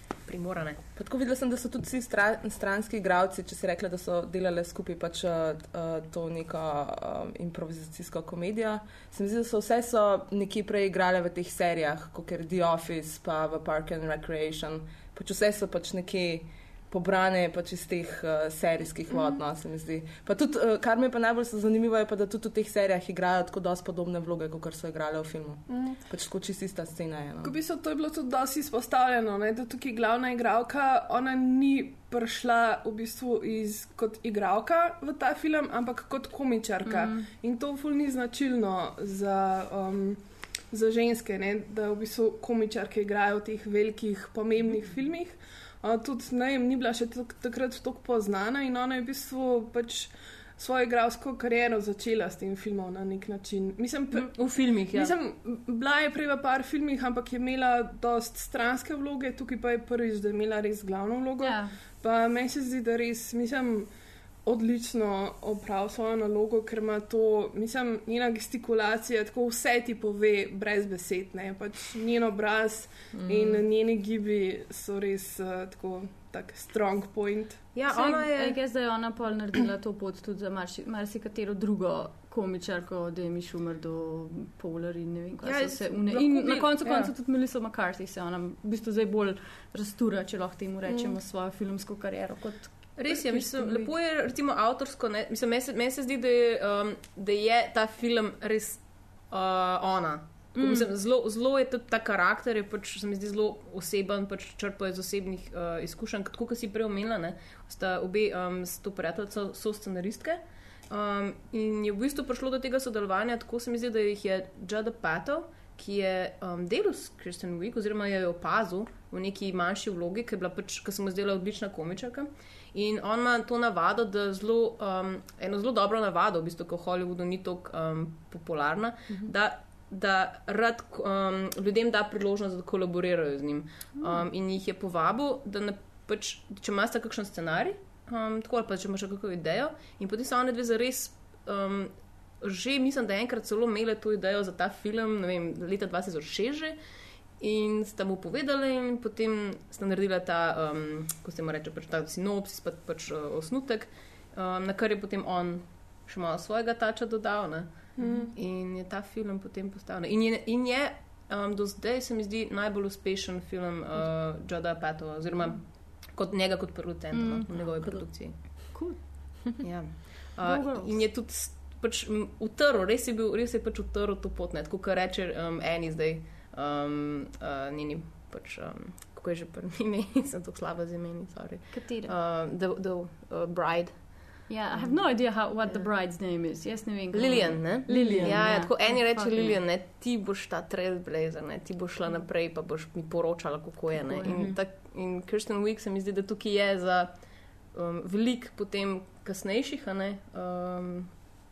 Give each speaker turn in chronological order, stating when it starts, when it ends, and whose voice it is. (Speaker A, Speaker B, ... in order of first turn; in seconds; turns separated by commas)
Speaker A: 0.2-0.8, Speaker B: 1.0-27.6, Speaker C: 25.7-26.0, Speaker C: 27.4-63.9, Speaker D: 36.9-37.3, Speaker A: 54.2-55.1, Speaker D: 61.4-61.7, Speaker C: 64.4-77.7, Speaker B: 73.1-73.6, Speaker A: 77.8-78.6, Speaker D: 77.9-93.9, Speaker A: 85.4-87.1, Speaker A: 93.0-146.8, Speaker D: 100.6-100.9, Speaker A: 147.4-168.4, Speaker C: 158.0-158.3, Speaker D: 167.1-167.5, Speaker B: 167.5-168.7, Speaker D: 168.5-169.0, Speaker A: 169.6-184.9, Speaker D: 170.4-171.0, Speaker D: 181.7-182.1, Speaker D: 184.5-189.6, Speaker A: 187.1-201.3, Speaker B: 187.9-188.5, Speaker D: 194.0-194.5, Speaker B: 194.3-194.6